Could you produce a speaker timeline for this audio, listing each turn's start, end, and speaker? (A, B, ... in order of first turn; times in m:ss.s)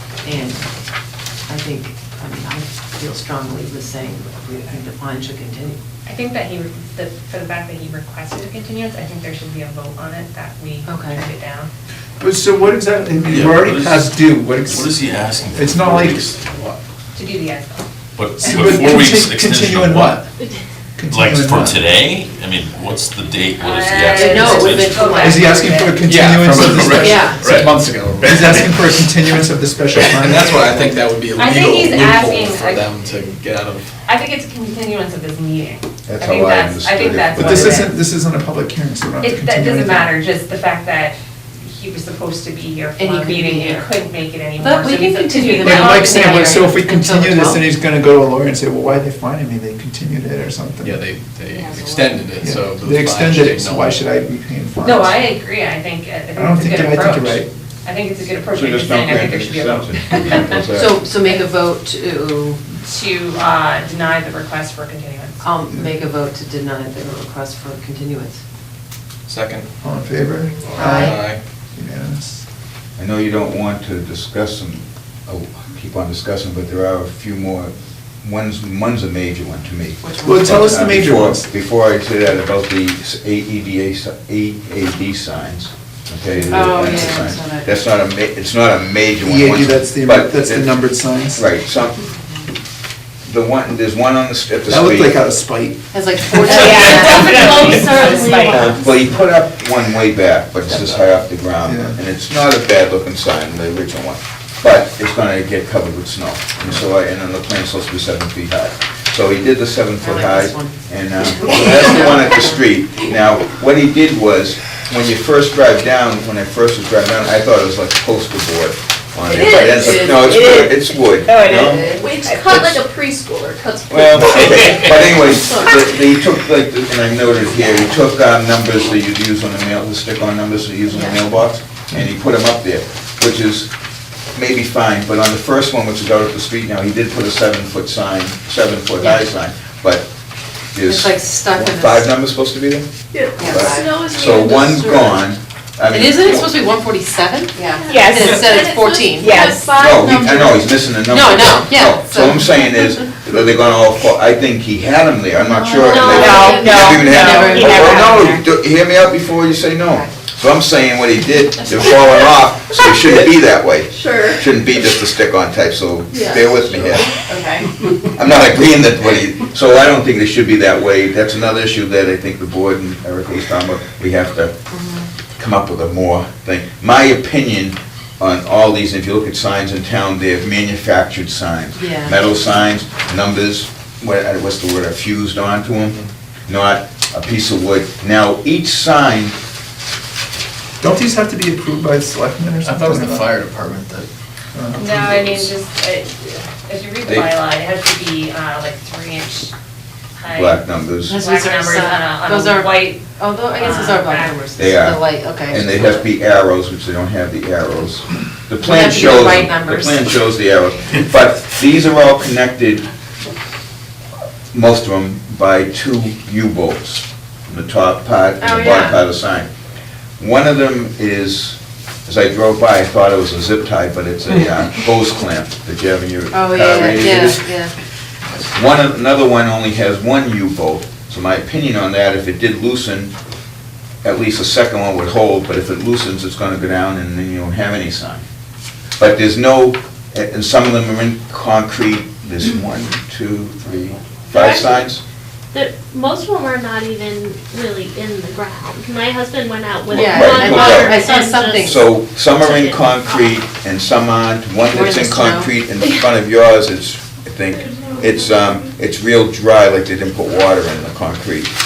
0:00.2-0:00.7 A
0:01.5-0:05.8 A
0:06.0-0:11.7 B
0:10.8-0:11.2 A
0:12.2-0:14.9 C
0:13.3-0:16.6 D
0:15.5-0:16.3 C
0:17.1-0:19.0 B
0:18.1-0:20.2 D
0:18.4-0:20.3 C
0:20.9-0:21.8 C
0:21.1-0:25.1 D
0:23.6-0:26.2 B
0:24.1-0:25.5 A
0:25.2-0:30.7 C
0:26.0-0:29.2 E
0:27.0-0:27.4 A
0:29.9-0:33.9 E
0:31.3-0:33.2 B
0:34.0-0:37.9 B
0:36.0-0:37.8 F
0:37.4-0:40.1 C
0:39.2-0:46.6 B
0:43.0-0:43.9 A
0:44.6-0:47.6 A
0:45.6-0:51.0 C
0:50.8-0:54.0 E
0:52.4-0:55.2 C
0:54.8-1:00.6 B
0:56.3-0:57.5 C
0:58.5-1:01.0 F
1:00.7-1:02.6 A
1:02.8-1:05.4 B
1:05.4-1:08.4 A
1:09.3-1:09.7 E
1:09.8-1:11.2 C
1:10.6-1:11.4 E
1:10.7-1:11.2 A
1:11.7-1:12.3 C
1:13.0-1:30.8 F
1:20.0-1:20.9 A
1:20.2-1:21.5 C
1:26.4-1:27.7 A
1:29.2-1:31.4 C
1:31.4-1:32.0 F
1:33.2-1:35.2 F
1:34.7-1:36.6 C
1:35.9-1:38.3 A
1:36.5-1:38.7 B
1:36.6-1:39.0 G
1:38.5-2:02.8 F
1:41.6-1:42.0 C
1:50.0-1:52.6 A
1:59.3-2:02.6 G
1:59.4-2:00.1 H
2:01.9-2:05.8 H
2:03.9-2:13.7 F
2:10.9-2:11.2 A
2:14.3-2:20.1 F
2:19.0-2:19.2 A
2:20.7-2:22.9 F
2:20.8-2:22.1 A
2:23.1-2:23.9 H
2:23.4-2:23.9 A
2:23.4-2:26.5 F
2:23.4-2:24.8 G
2:25.9-2:29.6 A
2:27.6-2:30.4 G
2:27.9-2:28.4 B
2:29.2-2:30.6 H
2:29.7-2:47.2 F
2:31.1-2:32.6 A
2:35.5-2:37.6 G
2:35.6-2:36.0 H
2:36.0-2:38.4 B
2:36.3-2:38.4 A
2:43.9-2:44.4 H
2:47.3-2:47.6 H
2:48.1-2:54.5 F
2:54.7-2:55.1 A
2:55.4-3:09.4 F
3:01.7-3:02.2 A
3:10.8-3:13.3 C
3:12.6-3:14.1 E
3:14.5-3:14.9 C
3:14.8-3:19.5 B
3:14.8-3:15.5 E
3:20.2-3:24.4 B
3:20.3-3:21.2 F
3:21.1-3:26.1 A
3:24.6-3:32.9 F
3:28.6-3:30.2 A
3:34.5-3:39.5 F
3:38.4-3:39.0 A
3:40.2-3:47.5 F
3:46.3-3:47.7 A
3:48.5-3:53.1 F
3:54.0-3:58.2 F
3:59.0-4:05.0 F
4:04.4-4:04.8 G
4:05.5-4:11.7 G
4:09.9-4:11.8 A
4:10.0-4:11.0 F
4:11.6-4:21.5 F
4:14.7-4:15.5 A